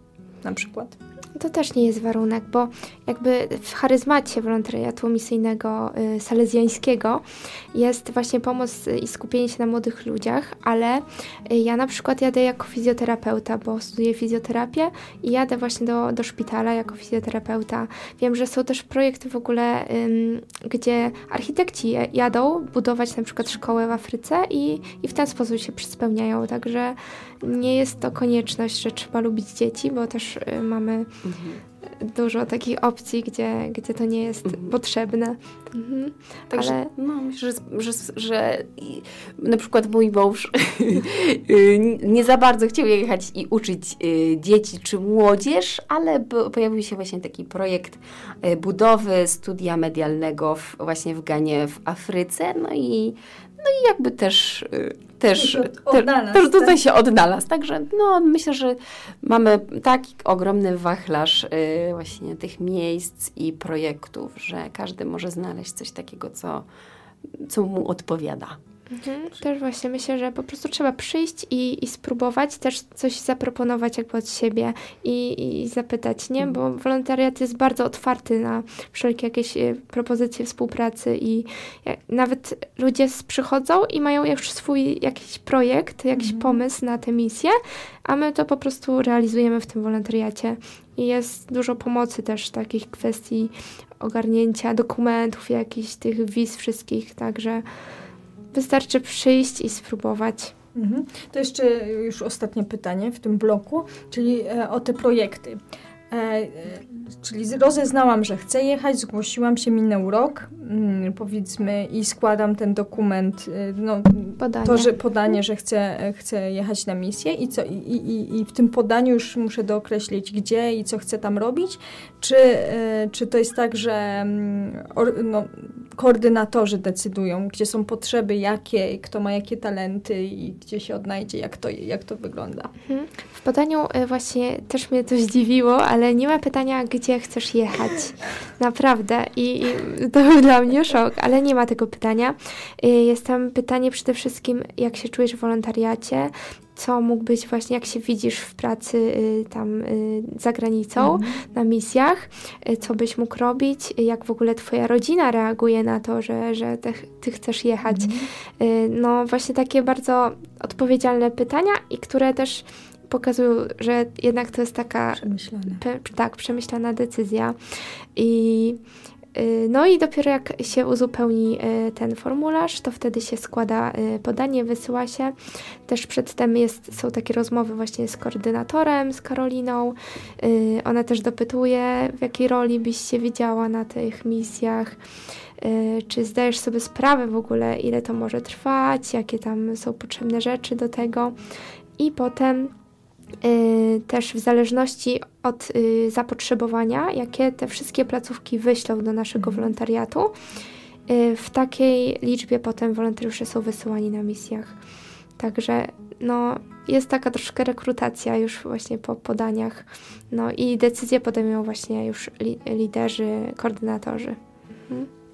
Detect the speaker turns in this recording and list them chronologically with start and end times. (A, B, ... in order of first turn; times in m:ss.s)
0:00.4-0:01.0 A
0:01.4-0:31.1 B
0:31.2-0:31.6 C
0:32.0-0:36.9 B
0:34.5-0:34.7 C
0:36.5-1:06.6 C
0:55.4-0:56.8 A
1:07.4-1:08.6 C
1:08.9-1:37.6 B
1:26.2-1:26.6 A
1:38.5-1:40.5 B
1:40.7-2:12.7 A
1:54.4-1:54.9 B
2:12.9-2:47.6 B
2:31.0-2:31.4 A
2:37.9-2:38.3 A
2:45.2-2:45.8 A
2:48.2-2:48.8 B
2:49.3-2:55.3 B
2:55.9-3:05.0 B
3:05.6-3:11.3 B
3:12.0-3:12.7 B
3:13.4-3:20.3 B
3:21.1-3:24.7 B
3:25.4-3:34.4 B